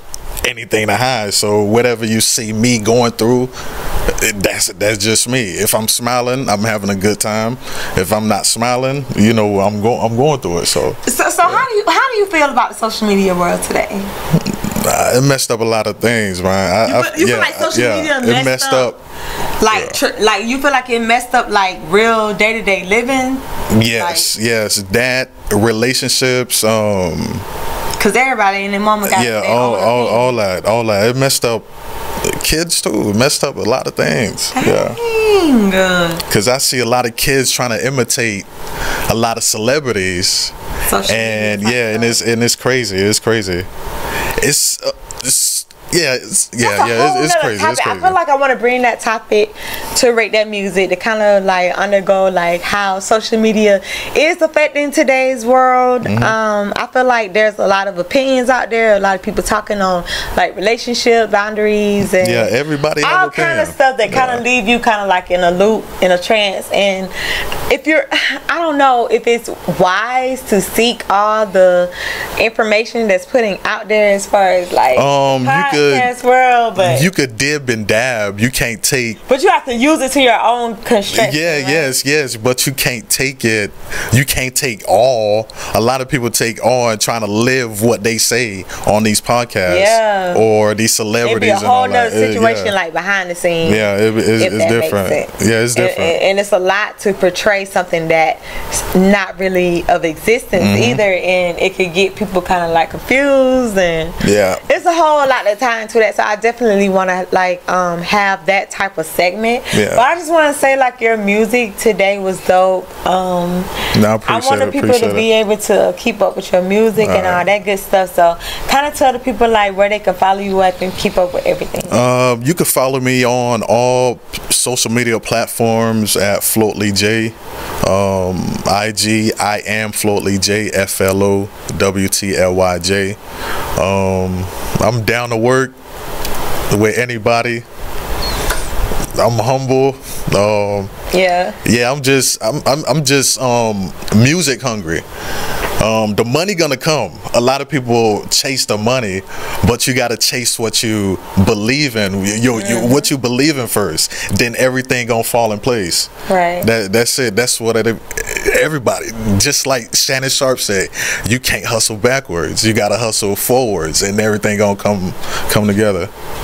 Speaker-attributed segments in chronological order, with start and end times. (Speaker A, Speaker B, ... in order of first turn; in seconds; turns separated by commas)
Speaker A: 0.4-3.5, Speaker A: 4.1-11.7, Speaker B: 11.0-14.1, Speaker A: 14.3-19.0, Speaker B: 16.8-18.9, Speaker B: 19.6-24.3, Speaker A: 19.7-20.0, Speaker A: 23.7-27.4, Speaker B: 28.0-30.3, Speaker A: 29.0-31.6, Speaker A: 32.2-35.0, Speaker B: 34.5-36.2, Speaker A: 36.3-38.5, Speaker A: 39.1-40.5, Speaker B: 40.9-42.2, Speaker A: 41.0-43.7, Speaker A: 44.4-48.1, Speaker B: 46.6-67.1, Speaker A: 56.0-56.4, Speaker A: 62.0-64.4, Speaker B: 67.7-77.1, Speaker A: 74.9-76.1, Speaker A: 76.8-79.2, Speaker B: 79.2-81.9, Speaker A: 81.1-92.7, Speaker B: 89.7-90.4, Speaker B: 91.2-113.7, Speaker A: 93.6-96.2, Speaker A: 100.5-101.0, Speaker A: 104.2-104.6, Speaker A: 109.7-110.0, Speaker A: 113.9-115.2, Speaker B: 114.2-122.0, Speaker A: 117.0-117.5, Speaker A: 121.8-133.2, Speaker A: 133.8-135.7, Speaker A: 136.7-137.6, Speaker A: 139.2-140.9, Speaker B: 141.1-141.6, Speaker A: 141.6-145.0, Speaker A: 145.8-166.1, Speaker B: 152.5-153.1, Speaker B: 156.3-156.7